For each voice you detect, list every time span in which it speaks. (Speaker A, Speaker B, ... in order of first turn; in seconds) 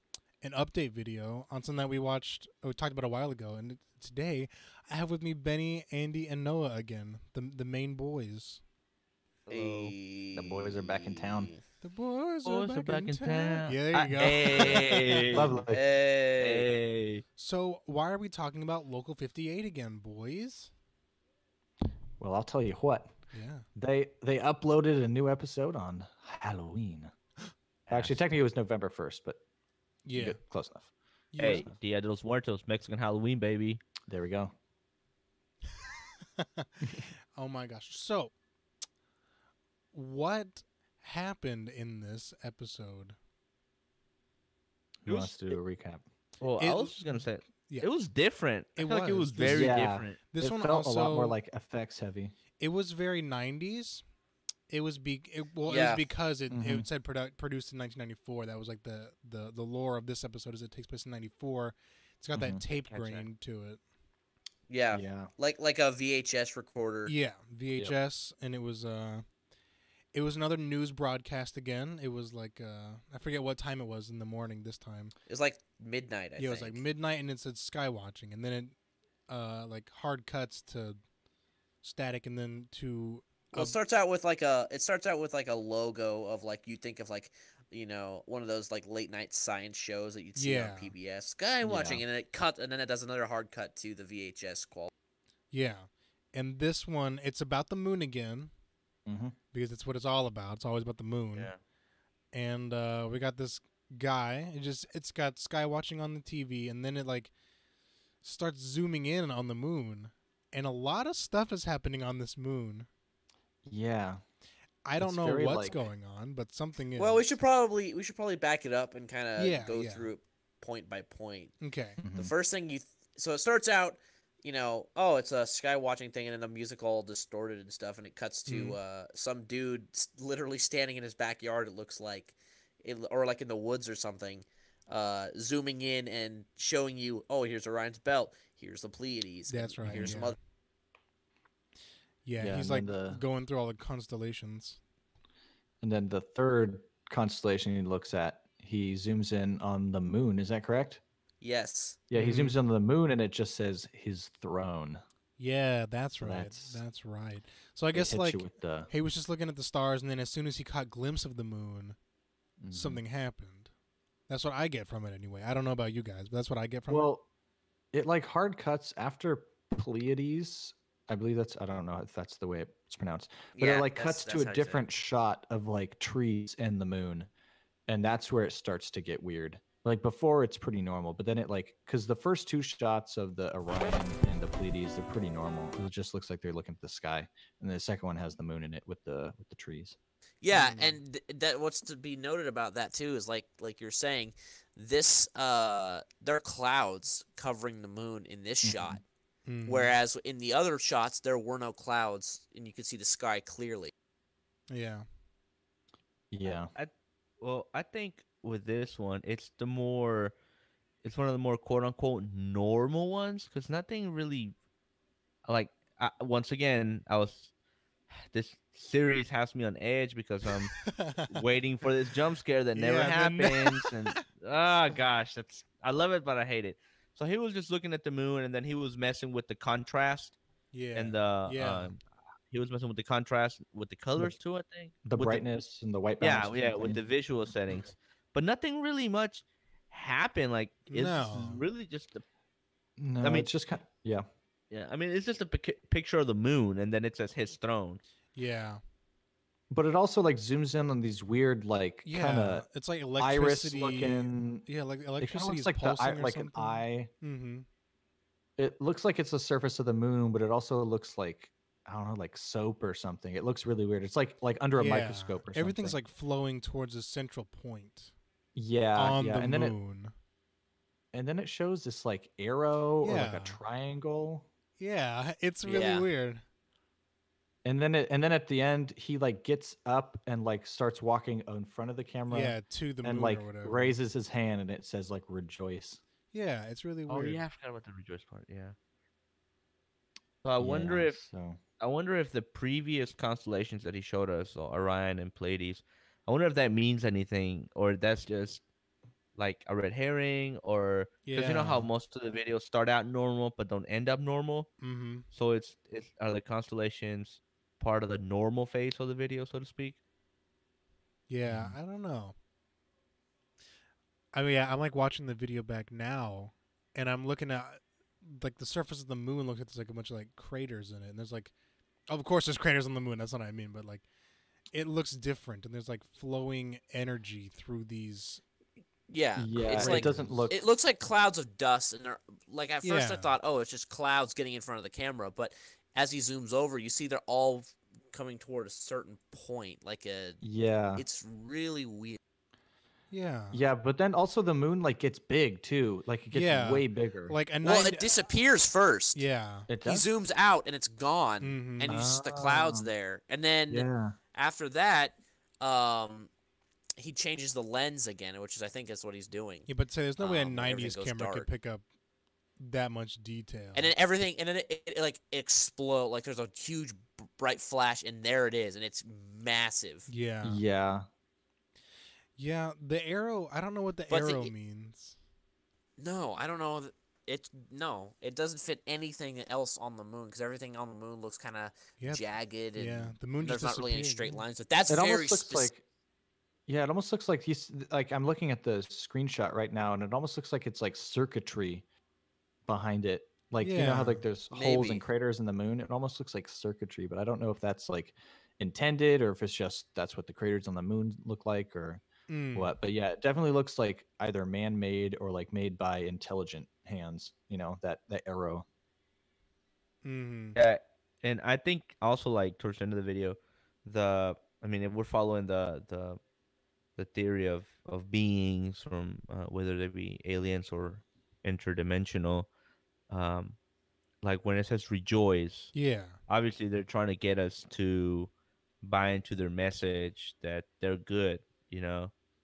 Speaker A: 0.4-8.6, 11.8-15.4, 17.4-20.7, 23.3-23.6, 30.1-30.4, 31.3-31.7, 36.4-38.3, 39.9-43.2, 46.6-47.9, 48.8-51.4, 52.6-54.0, 54.7-63.8, 67.1-69.2, 70.1-75.1, 76.4-78.8, 79.3-81.0, 81.8-83.8, 90.4-90.9, 95.5-98.5, 99.5-101.5, 102.3-107.3, 108.2-112.9, 114.8-117.2, 119.4-120.1, 121.6-122.0, 128.5-128.8, 139.5-140.4, 142.2-144.8, 152.2-152.6, 155.4-162.0, 162.7-163.7, 164.3-167.1, 190.5-191.0, 199.5-199.9, 204.7-205.1, 220.9-221.3, 222.8-224.2, 230.7-231.9, 240.9-241.6, 248.3-248.8, 252.1-257.7, 264.8-268.1, 269.0-270.1, 273.0-273.6, 274.8-276.4, 282.3-284.0, 286.3-287.4, 301.2-301.9, 304.8-305.3, 311.3-312.4, 314.3-321.5, 322.1-324.1, 324.7-328.4, 329.8-330.5, 332.8-333.4, 343.1-343.6, 346.3-348.1, 349.2-349.7, 351.4-352.0, 359.7-361.8, 362.6-363.9, 370.1-370.6, 372.4-375.2, 382.0-384.4, 393.6-394.2, 402.3-402.8, 410.0-410.6, 425.7-426.2
Speaker B: 9.5-9.9, 12.4-15.6, 16.4-17.2, 27.9-28.2, 31.4-33.8, 45.1-45.6, 46.4-50.2, 62.7-63.3, 206.8-210.3, 211.0-214.6, 215.4-217.5, 218.1-230.4, 230.9-235.4, 236.2-242.2, 243.2-243.5, 244.7-248.0, 287.1-288.8, 290.4-291.2, 291.8-298.6, 299.4-304.7, 305.3-310.0, 410.6-416.2, 417.0-422.5, 423.1-423.6, 424.2-425.8, 426.3-428.3, 428.8-432.1
Speaker C: 9.5-11.6, 14.2-14.9, 15.7-16.7, 55.7-56.0, 64.7-67.1, 75.3-76.8, 83.5-94.9, 117.0-121.6, 122.2-140.3, 151.4-152.0, 173.6-174.9, 190.4-199.0, 199.7-203.9, 275.6-276.1, 329.1-340.4, 341.0-342.2, 347.6-349.2, 349.8-356.3, 357.0-359.7, 360.2-361.5, 363.8-370.1, 374.1-374.5, 376.0-385.7, 394.5-395.1
Speaker D: 10.3-11.5, 15.3-15.8, 22.2-23.2, 23.8-27.1, 27.9-29.4, 30.1-30.9, 34.1-34.5, 45.0-46.0, 49.4-52.4, 56.5-56.9, 62.3-62.6, 64.9-65.3, 91.6-92.0, 99.1-99.3, 113.7-114.2, 115.0-115.8, 122.0-122.3, 139.9-140.2, 142.4-143.2, 145.8-151.0, 152.1-155.0, 156.2-156.8, 157.9-158.9, 162.6-163.0, 166.9-167.2, 167.9-177.3, 177.9-190.0, 198.6-199.0, 206.3-206.7, 235.1-237.0, 241.3-241.6, 243.0-244.3, 249.7-252.7, 253.2-254.7, 255.2-257.1, 258.6-266.0, 268.6-269.8, 271.1-274.5, 277.6-286.0, 290.6-291.6, 311.5-311.7, 329.4-330.6, 340.4-341.0, 343.5-347.4, 349.7-350.1, 351.9-352.9, 353.7-354.1, 370.4-371.1, 384.9-385.8, 386.7-391.9, 392.7-402.0, 402.6-408.6